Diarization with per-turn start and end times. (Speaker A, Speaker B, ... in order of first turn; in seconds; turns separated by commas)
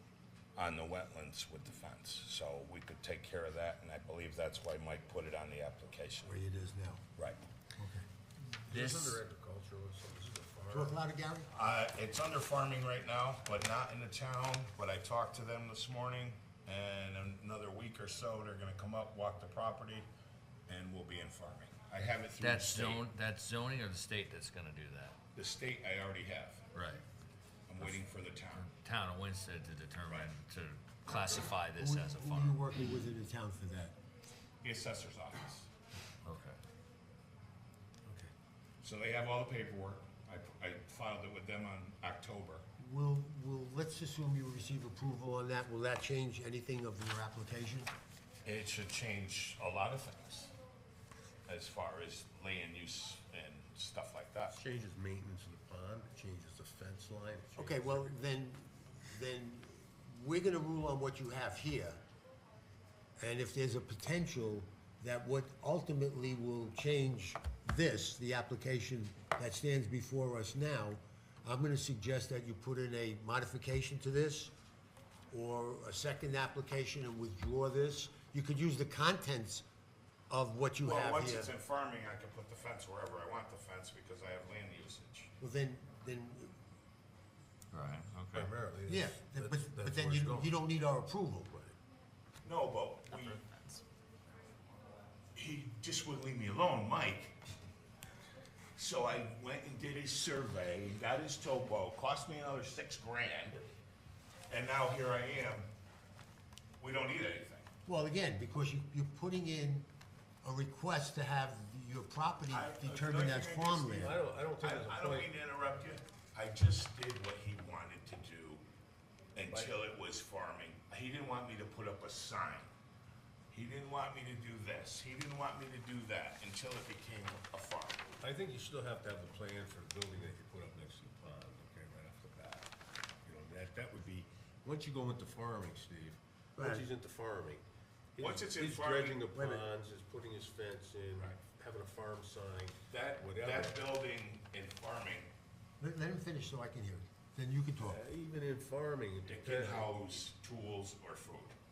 Speaker A: 0.6-6.3, Speaker B: 6.2-7.0, Speaker B: 7.8-8.0, Speaker C: 8.7-11.0, Speaker D: 8.7-9.2, Speaker B: 10.7-11.5, Speaker A: 11.5-20.1, Speaker A: 20.7-23.0, Speaker D: 22.4-25.1, Speaker A: 25.3-26.6, Speaker D: 26.7-27.0, Speaker A: 27.7-28.7, Speaker D: 28.5-32.6, Speaker B: 31.8-34.0, Speaker A: 34.6-35.7, Speaker D: 36.2-36.6, Speaker A: 38.8-42.6, Speaker B: 42.8-47.9, Speaker A: 48.4-50.5, Speaker A: 51.5-54.6, Speaker C: 54.5-58.1, Speaker B: 57.5-62.0, Speaker B: 63.2-74.5, Speaker B: 75.3-79.6, Speaker B: 80.3-81.5, Speaker A: 80.8-85.3, Speaker B: 85.4-86.5, Speaker D: 87.7-88.5, Speaker C: 88.3-90.5, Speaker B: 88.9-91.5, Speaker C: 91.5-91.8, Speaker A: 92.4-93.4, Speaker D: 93.2-93.8, Speaker A: 95.3-97.3, Speaker A: 98.8-103.6, Speaker A: 104.5-105.7, Speaker A: 106.8-107.7, Speaker B: 107.8-109.9, Speaker B: 110.4-114.2, Speaker A: 112.5-118.6, Speaker C: 113.8-115.3, Speaker A: 119.3-122.7, Speaker A: 123.5-128.1, Speaker C: 128.2-132.7, Speaker C: 133.2-137.6, Speaker B: 136.6-136.9, Speaker C: 138.1-143.8, Speaker A: 138.2-139.2, Speaker B: 139.3-139.6, Speaker A: 142.9-145.3, Speaker B: 145.8-148.0, Speaker C: 147.8-150.1, Speaker A: 149.3-151.5